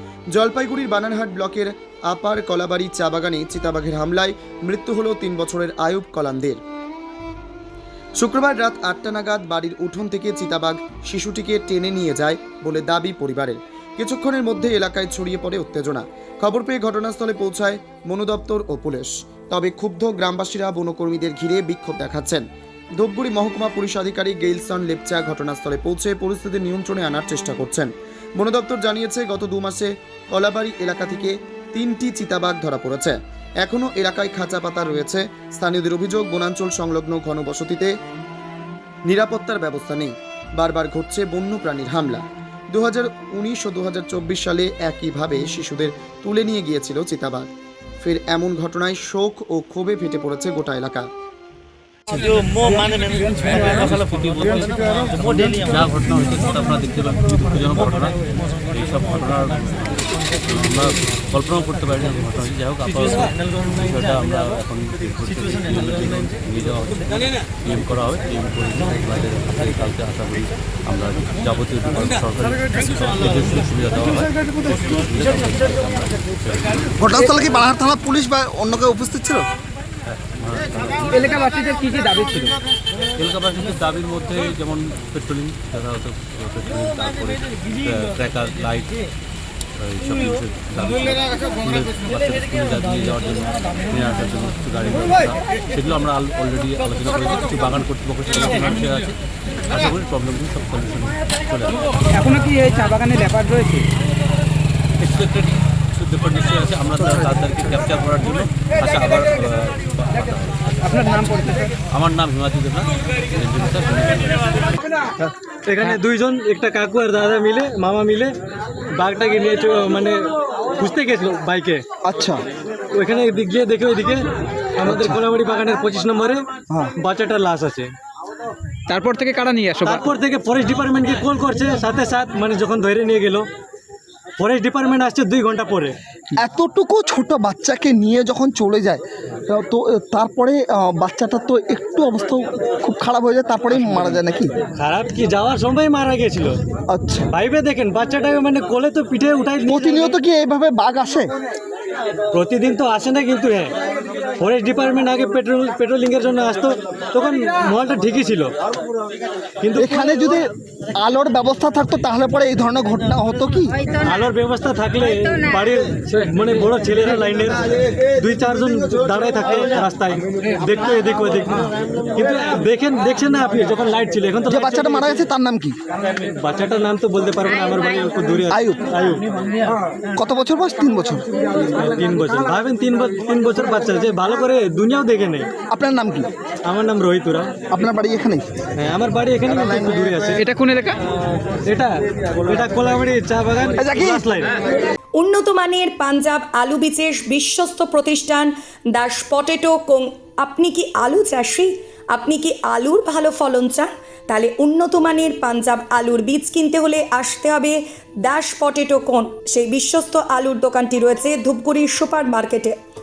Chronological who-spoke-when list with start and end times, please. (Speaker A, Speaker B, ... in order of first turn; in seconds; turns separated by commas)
Speaker A: 0.3-6.6, Speaker A: 8.2-22.4, Speaker A: 23.0-37.9, Speaker A: 39.1-47.5, Speaker A: 48.0-51.1, Speaker B: 52.2-77.0, Speaker C: 77.0-79.5, Speaker B: 80.1-81.4, Speaker D: 81.1-82.6, Speaker B: 83.2-89.0, Speaker B: 89.8-99.2, Speaker B: 99.7-101.8, Speaker D: 102.2-103.9, Speaker B: 105.0-110.9, Speaker D: 110.9-111.7, Speaker B: 111.9-114.7, Speaker E: 115.2-118.3, Speaker E: 119.0-121.8, Speaker C: 122.0-122.4, Speaker E: 122.9-124.2, Speaker E: 124.8-126.5, Speaker C: 124.8-125.2, Speaker E: 127.0-127.9, Speaker D: 128.9-130.1, Speaker E: 129.8-133.5, Speaker E: 134.4-136.0, Speaker C: 136.3-144.5, Speaker E: 143.7-144.2, Speaker E: 144.7-146.6, Speaker C: 146.9-147.3, Speaker E: 147.3-150.1, Speaker C: 149.7-151.3, Speaker E: 152.3-153.7, Speaker E: 154.4-158.5, Speaker E: 159.6-160.3, Speaker C: 159.8-163.9, Speaker E: 164.0-175.2, Speaker C: 174.5-175.8, Speaker E: 176.3-179.3, Speaker C: 178.5-178.9, Speaker C: 180.1-181.3, Speaker E: 181.6-185.5, Speaker C: 185.7-186.3, Speaker E: 186.7-187.6, Speaker C: 187.7-188.5, Speaker E: 188.8-190.5, Speaker C: 189.6-190.4, Speaker D: 190.4-191.0, Speaker E: 191.7-194.6, Speaker C: 193.8-194.3, Speaker F: 195.2-212.8